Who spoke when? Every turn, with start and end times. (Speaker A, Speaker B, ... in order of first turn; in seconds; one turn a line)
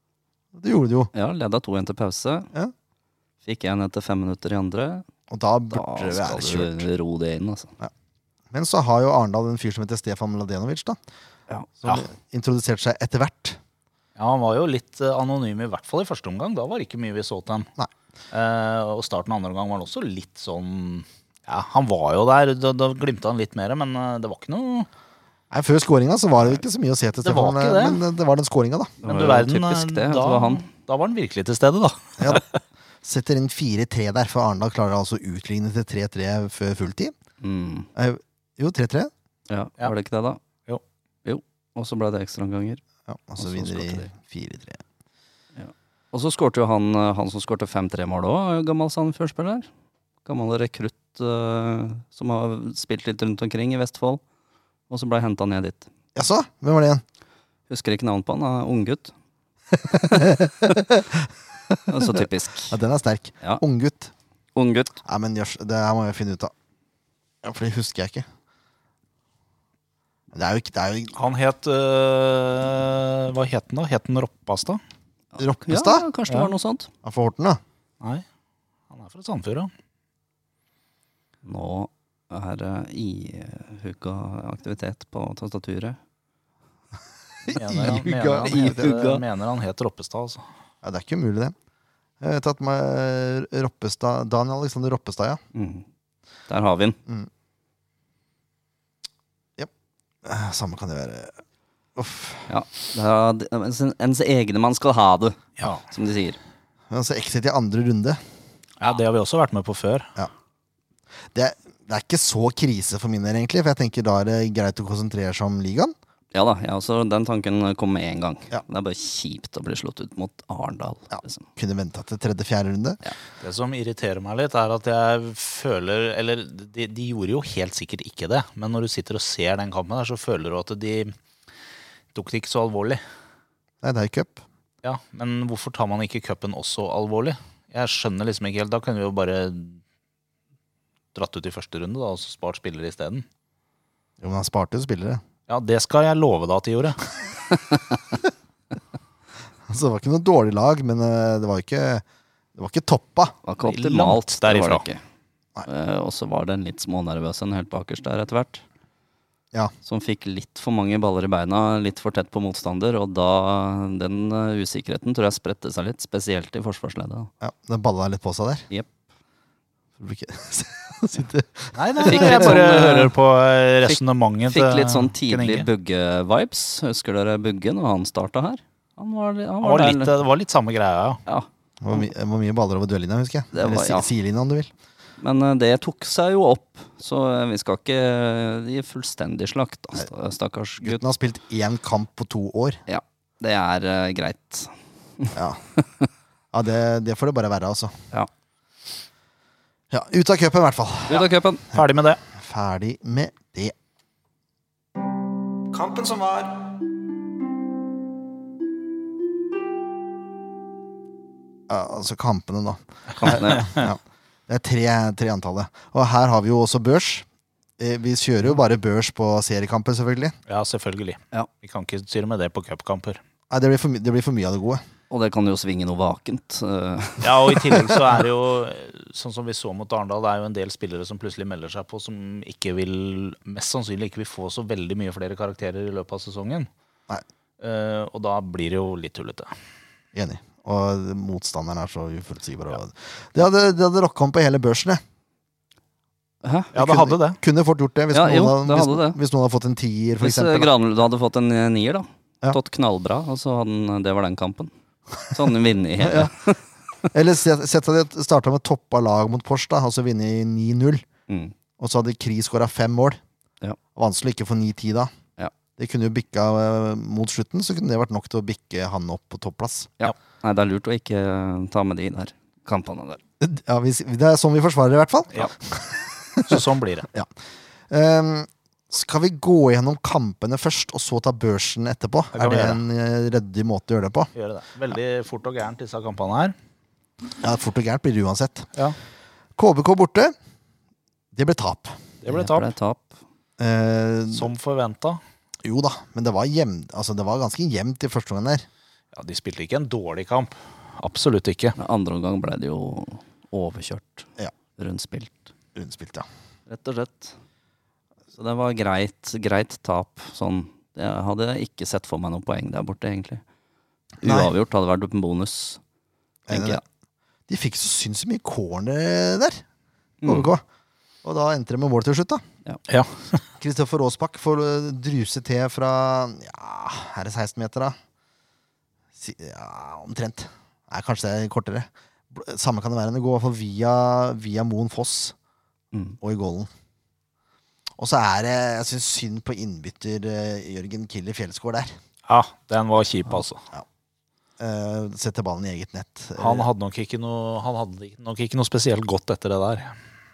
Speaker A: 0.5-1.1
Speaker B: 1.1-2.5
Speaker B: 3.4-5.0
Speaker A: 5.3-6.9
Speaker B: 5.7-7.7
Speaker A: 8.5-11.0
Speaker A: 11.8-13.6
Speaker C: 14.2-17.7
Speaker C: 18.3-24.9
Speaker A: 25.5-29.0
Speaker C: 27.2-28.0
Speaker C: 29.0-32.4
Speaker B: 29.0-30.6
Speaker A: 32.2-32.4
Speaker A: 33.0-37.1
Speaker B: 37.4-37.9
Speaker A: 38.0-39.1
Speaker B: 39.5-40.4
Speaker B: 41.2-42.8
Speaker A: 43.0-44.8
Speaker B: 43.4-44.1
Speaker B: 45.5-49.7
Speaker B: 50.2-54.2
Speaker B: 54.9-55.9
Speaker A: 56.1-57.0
Speaker B: 57.7-59.1
Speaker A: 59.7-62.1
Speaker B: 61.9-62.7
Speaker A: 62.7-64.1
Speaker B: 64.5-65.0
Speaker A: 65.0-66.5
Speaker A: 67.4-68.2
Speaker A: 70.3-71.2
Speaker C: 71.1-74.8
Speaker B: 75.3-76.9
Speaker A: 75.4-76.1
Speaker A: 77.0-77.6
Speaker C: 78.9-79.7
Speaker B: 81.4-86.0
Speaker A: 87.5-88.9
Speaker C: 87.5-90.4
Speaker B: 88.4-89.2
Speaker A: 90.8-91.5
Speaker A: 92.2-95.4
Speaker B: 95.5-95.8
Speaker B: 96.5-97.0
Speaker A: 100.2-101.3
Speaker A: 102.0-102.5
Speaker B: 102.5-106.4
Speaker A: 106.9-108.2
Speaker C: 108.8-110.1
Speaker A: 111.3-115.9
Speaker B: 116.3-121.4
Speaker A: 121.1-123.0
Speaker C: 123.4-131.2
Speaker C: 132.1-133.0
Speaker A: 133.8-134.4
Speaker C: 134.8-139.8
Speaker C: 141.1-143.2
Speaker A: 144.2-145.2
Speaker C: 145.5-147.0
Speaker A: 149.7-152.0
Speaker A: 152.6-153.3
Speaker B: 153.4-155.0
Speaker C: 153.6-154.8
Speaker B: 155.7-158.6
Speaker B: 159.8-167.3
Speaker A: 167.4-168.6
Speaker A: 170.0-172.5
Speaker C: 171.8-175.7
Speaker B: 172.0-173.1
Speaker B: 173.8-180.1
Speaker C: 179.6-181.2
Speaker B: 181.3-182.0
Speaker A: 181.8-184.7
Speaker B: 183.5-184.1
Speaker B: 185.2-191.0
Speaker A: 190.8-192.8
Speaker B: 192.9-195.3
Speaker A: 195.3-195.6
Speaker A: 196.5-197.9
Speaker A: 199.9-201.2
Speaker B: 201.1-201.6
Speaker C: 201.1-202.2
Speaker A: 202.3-203.7
Speaker A: 205.7-206.6
Speaker A: 211.7-217.2
Speaker B: 213.2-213.8
Speaker A: 217.8-220.3
Speaker C: 220.5-223.2
Speaker A: 223.5-224.8
Speaker B: 225.1-227.7
Speaker C: 227.2-236.7
Speaker C: 237.6-239.5
Speaker A: 240.1-245.0
Speaker B: 246.4-246.7
Speaker C: 246.7-247.4
Speaker A: 246.7-250.7
Speaker B: 248.1-249.2
Speaker B: 250.2-254.7
Speaker B: 255.3-256.6
Speaker A: 256.0-256.3
Speaker A: 257.1-261.0
Speaker B: 261.3-261.5
Speaker A: 261.8-263.2
Speaker A: 263.9-265.1
Speaker A: 265.8-269.9
Speaker B: 270.0-273.2
Speaker A: 273.4-277.3
Speaker C: 276.5-277.1
Speaker A: 277.9-284.3
Speaker C: 282.3-282.8
Speaker C: 284.3-286.5
Speaker A: 287.4-288.7
Speaker A: 289.6-290.3
Speaker A: 291.3-292.0
Speaker C: 292.2-292.7
Speaker B: 292.3-293.1
Speaker A: 293.6-294.5
Speaker C: 294.3-295.2
Speaker A: 295.6-298.6
Speaker C: 299.1-301.8
Speaker B: 301.8-305.5
Speaker A: 305.8-306.2
Speaker B: 306.7-307.3
Speaker B: 308.3-313.4
Speaker B: 314.2-315.8
Speaker A: 314.2-314.5
Speaker A: 316.5-316.8
Speaker B: 316.5-316.8
Speaker A: 317.5-319.6
Speaker B: 320.2-320.5
Speaker A: 320.2-320.6
Speaker A: 321.2-322.4
Speaker C: 322.9-323.4
Speaker A: 323.6-327.9
Speaker A: 329.2-335.3
Speaker A: 336.2-336.7
Speaker A: 338.0-341.9
Speaker C: 342.3-343.6
Speaker A: 344.6-346.7
Speaker C: 346.4-349.9